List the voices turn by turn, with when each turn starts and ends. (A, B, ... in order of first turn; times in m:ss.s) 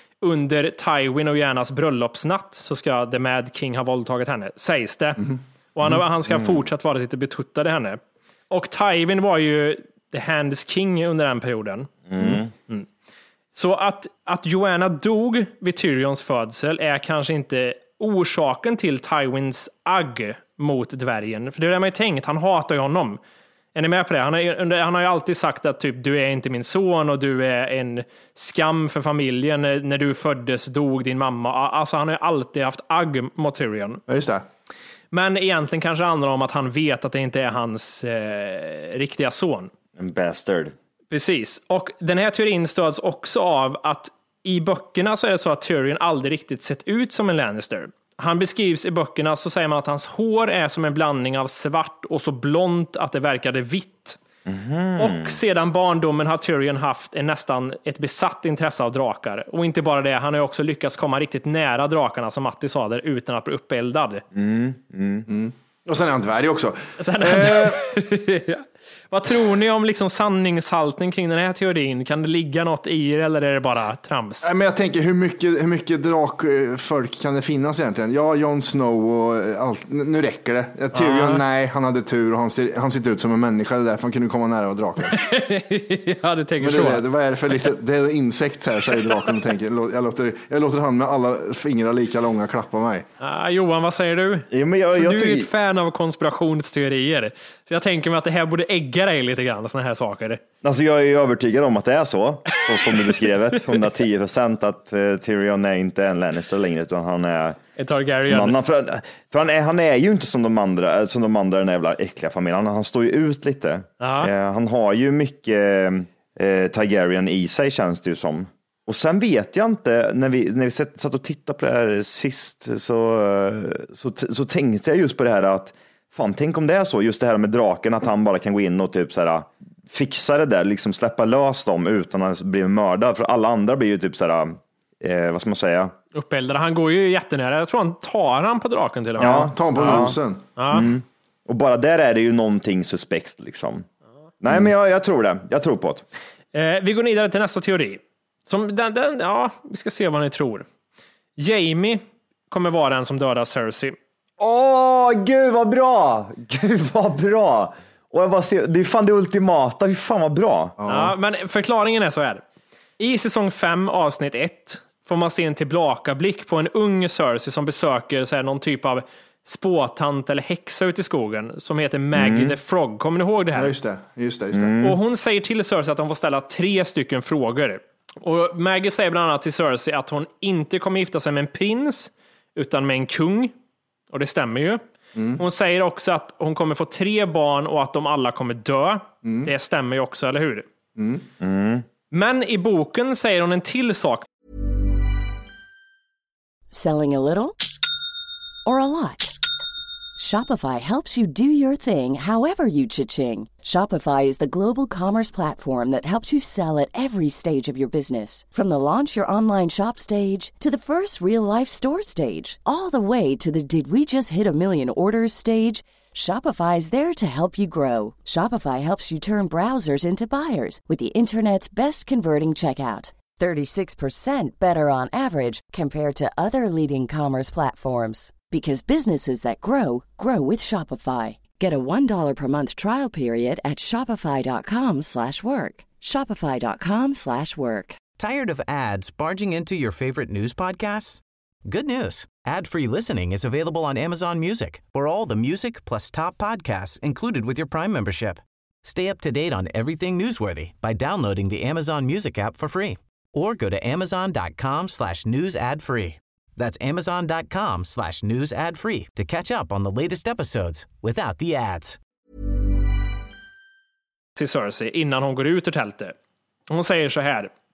0:00.2-0:11.9 A
0:06.3-0:06.6 B
0:12.1-0:12.5 B
0:13.5-0:23.2 A
0:23.7-0:34.0 A
0:34.1-0:34.4 C
0:35.1-0:39.7 A
0:40.0-0:40.7 B
0:41.1-0:54.2 A
0:54.4-0:55.4 B
0:55.0-1:04.2 A
1:04.3-1:05.3 B
1:05.3-1:07.8 C
1:07.0-1:14.5 A
1:14.4-1:25.2 C
1:20.9-1:21.4 A
1:25.0-1:27.0 A
1:26.6-1:33.1 C
1:33.2-1:40.4 A
1:34.5-1:35.5 B
1:40.6-1:47.6 B
1:47.8-1:48.6 A
1:48.3-2:15.9 B
1:54.0-1:54.3 A
2:16.1-2:20.0 A
2:19.2-2:20.2 B
2:19.2-2:20.4 C
2:20.6-2:20.9 A
2:20.7-2:23.8 B
2:24.4-2:26.0 B
2:26.5-2:30.6 A
2:31.4-2:34.0 A
2:34.4-2:40.7 B
2:40.8-2:41.1 C
2:40.9-2:42.4 A
2:43.0-2:53.7 A
2:52.1-2:52.6 B
2:53.5-2:54.7 C
2:54.5-2:55.0 B
2:54.8-3:03.5 A
3:04.1-3:04.8 A
3:05.2-3:05.4 C
3:05.4-3:10.6 A
3:09.2-3:09.5 C
3:11.0-3:11.2 C
3:11.4-3:11.8 B
3:12.1-3:14.3 A
3:16.7-3:17.6 D
3:18.6-3:19.4 D
3:20.2-3:58.0 D
3:58.1-4:22.0 E
4:24.4-4:26.1 A
4:26.7-4:27.5 A